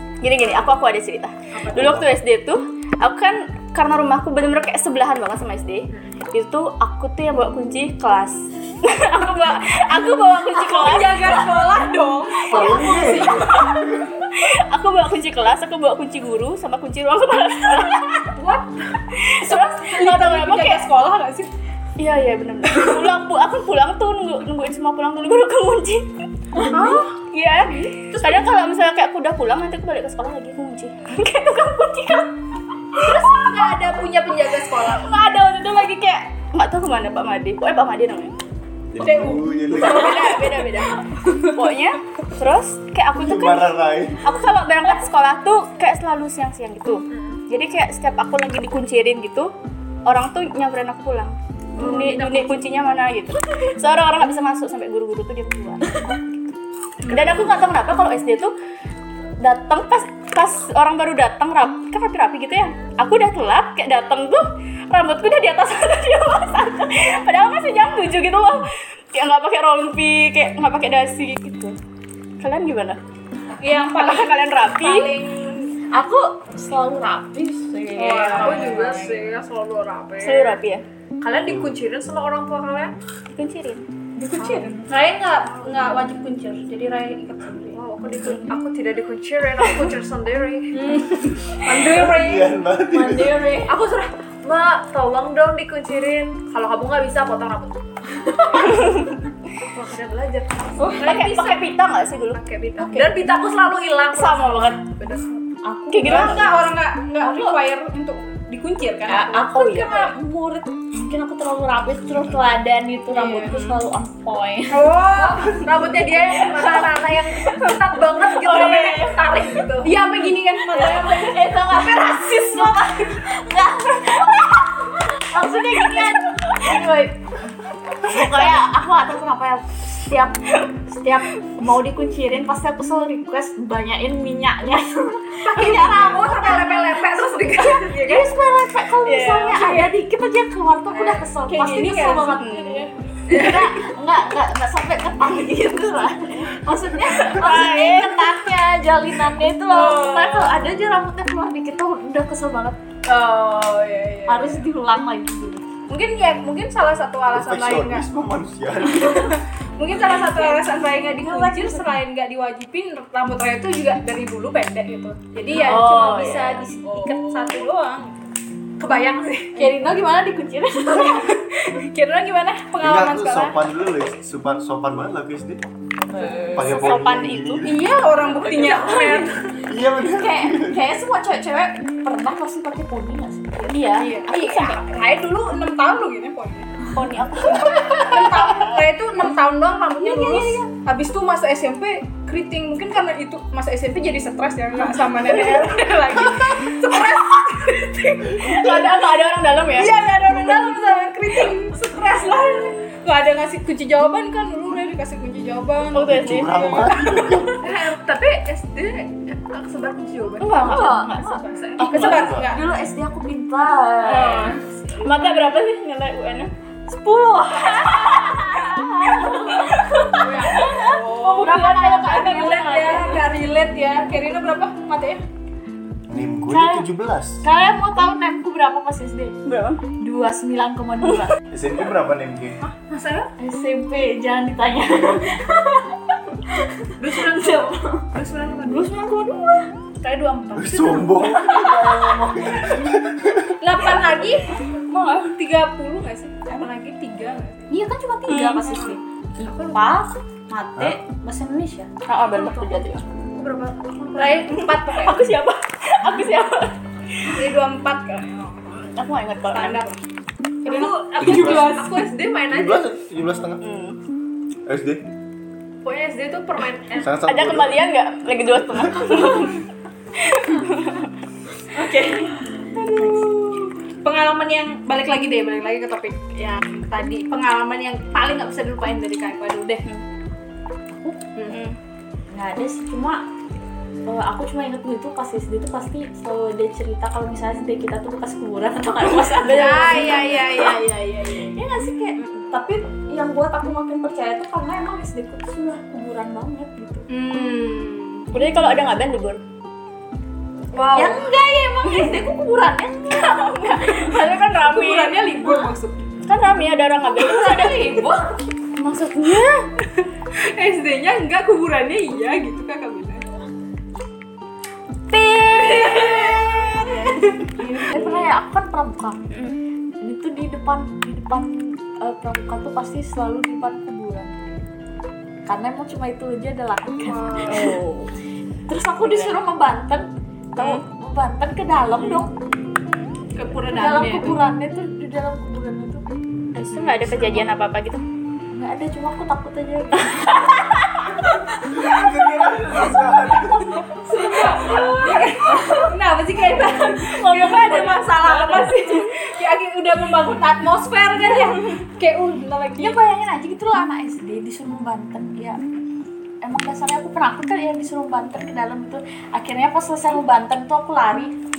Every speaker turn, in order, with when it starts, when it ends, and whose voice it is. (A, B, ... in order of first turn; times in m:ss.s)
0:00.2-0:11.4 A
0:01.5-0:02.1 B
0:10.6-0:13.6 C
0:12.4-0:14.1 D
0:12.6-0:13.5 B
0:13.1-0:18.3 A
0:19.1-0:20.8 A
0:19.4-0:21.5 C
0:22.0-0:26.1 A
0:26.5-0:27.0 E
0:26.7-0:27.1 C
0:27.3-0:32.3 A
0:28.1-0:28.4 C
0:32.9-0:33.7 A
0:32.9-0:35.1 C
0:34.8-0:38.4 A
0:38.9-0:40.4 D
0:39.0-0:41.6 C
0:39.7-0:49.5 A
0:43.2-0:44.2 D
0:47.1-0:47.4 B
0:50.0-0:56.5 A
0:51.8-0:52.5 C
0:57.0-0:57.5 C
0:57.1-0:58.5 A
0:59.4-1:11.8 A
1:12.4-1:13.0 A
1:13.6-1:15.7 C
1:13.9-1:15.2 A
1:15.9-1:19.2 E
1:18.0-1:19.2 C
1:18.1-1:18.8 A
1:18.3-1:20.6 B
1:20.2-1:20.8 A
1:21.2-1:22.9 B
1:23.3-1:23.8 A
1:24.2-1:24.8 E
1:24.2-1:27.8 C
1:24.4-1:24.6 B
1:25.4-1:25.9 B
1:27.7-1:30.8 B
1:30.7-1:32.5 C
1:31.8-1:33.4 D
1:32.9-1:33.8 E
1:33.7-1:37.8 B
1:38.6-1:39.1 A
1:39.6-1:41.7 B
1:40.9-1:43.2 A
1:42.3-1:45.4 B
1:44.1-1:44.8 A
1:45.6-1:46.6 E
1:45.9-1:46.5 A
1:46.0-1:49.9 C
1:47.2-1:47.6 E
1:49.0-1:55.0 E
1:49.5-1:50.0 A
1:53.1-1:53.6 C
1:54.7-1:55.6 C
1:55.1-2:00.0 B
1:58.4-1:59.4 A
1:59.8-2:01.5 C
2:00.7-2:07.2 E
2:05.4-2:06.8 A
2:08.0-2:16.8 E
2:08.1-2:08.6 A
2:15.4-2:18.2 B
2:15.7-2:18.2 C
2:17.8-2:32.8 E
2:19.0-2:19.7 A
2:19.6-2:19.9 C
2:21.4-2:22.4 C
2:22.2-2:22.9 A
2:23.3-2:23.6 B
2:27.2-2:28.4 A
2:33.1-2:34.5 C
2:33.3-2:34.3 B
2:34.3-2:35.6 E
2:35.9-2:38.0 C
2:37.3-2:39.4 D
2:39.0-2:48.2 C
2:41.2-2:41.8 E
2:45.5-2:46.6 A
2:47.0-2:47.4 E
2:48.8-2:49.7 B
2:49.6-2:51.3 E
2:50.8-2:53.7 C
2:52.8-2:55.6 D
2:56.1-2:57.1 E
2:56.4-2:57.7 A
2:56.5-2:57.9 D
2:57.6-2:59.5 C
2:58.4-3:03.7 E
2:59.6-3:00.8 D
3:03.7-3:04.9 A
3:03.8-3:06.8 C
3:06.9-3:08.1 A
3:07.0-3:08.4 E
3:07.7-3:18.8 C
3:10.0-3:10.6 E
3:18.4-3:20.0 A
3:19.7-3:27.5 C
3:22.2-3:22.7 B
3:25.9-3:27.0 A
3:26.0-3:27.6 D
3:27.6-3:31.8 B
3:30.4-3:31.4 A
3:30.5-3:34.5 E
3:31.8-3:32.6 C
3:31.9-3:32.5 D
3:34.1-3:36.5 A
3:34.1-3:34.6 C
3:36.9-3:39.9 E
3:37.7-3:43.2 A
3:40.2-3:41.5 B
3:40.5-3:45.2 C
3:41.2-3:42.9 E
3:46.1-3:47.4 D
3:46.5-3:46.9 E
3:47.4-3:49.4 E
3:49.4-3:49.8 A
3:50.0-3:51.4 E
3:51.5-3:52.6 D
3:52.9-3:53.3 B
3:53.4-3:58.1 E
3:57.0-3:58.9 B
3:58.6-3:59.7 E
4:00.0-4:01.3 B
4:00.5-4:03.5 D
4:01.3-4:02.9 E
4:03.6-4:04.5 C
4:04.9-4:05.3 A
4:05.1-4:07.7 C
4:07.7-4:11.9 E
4:08.3-4:08.9 A
4:09.4-4:09.8 B
4:12.1-4:13.0 A
4:13.3-4:14.7 B
4:14.2-4:15.3 C
4:14.5-4:17.3 A
4:17.4-4:18.9 C
4:18.9-4:19.9 A
4:19.5-4:20.0 C
4:20.6-4:22.9 B
4:20.6-4:22.1 C
4:21.2-4:21.8 D
4:22.5-4:23.6 D
4:23.6-4:24.0 A
4:24.7-4:25.0 D
4:25.8-4:27.2 B
4:27.0-4:27.9 D
4:27.2-4:29.6 A
4:30.2-4:31.1 A
4:31.8-4:32.3 C
4:32.7-4:33.4 E
4:32.8-4:33.2 A
4:33.0-4:39.8 C
4:40.9-4:41.2 E
4:41.5-4:41.8 A
4:42.3-4:43.2 E
4:44.1-4:50.4 E
4:49.3-4:50.7 A
4:49.4-4:51.6 C
4:51.4-4:57.0 E
4:57.1-4:58.3 C
4:58.3-4:59.4 A
5:00.7-5:01.2 B
5:00.9-5:04.1 E
5:03.1-5:05.3 A
5:04.4-5:06.0 C
5:06.2-5:08.0 A
5:07.2-5:08.5 E
5:08.8-5:09.6 A
5:10.3-5:13.2 C
5:15.3-5:17.5 C
5:15.5-5:16.5 A
5:15.7-5:19.2 E
5:17.9-5:18.3 A
5:20.0-5:24.6 E
5:25.4-5:27.8 E
5:27.1-5:27.6 B
5:27.5-5:28.0 A
5:28.7-5:32.3 E
5:29.0-5:29.4 A
5:30.6-5:30.8 A
5:33.4-5:34.4 C
5:33.6-5:36.0 E
5:36.6-5:37.5 E
5:36.6-5:38.0 A
5:38.5-5:40.6 E
5:40.0-5:41.1 A
5:41.7-5:43.9 D
5:44.1-5:44.8 B
5:44.2-5:45.8 E
5:44.2-5:53.0 C
5:46.7-5:49.1 A
5:52.8-5:55.6 E
5:56.4-6:01.3 E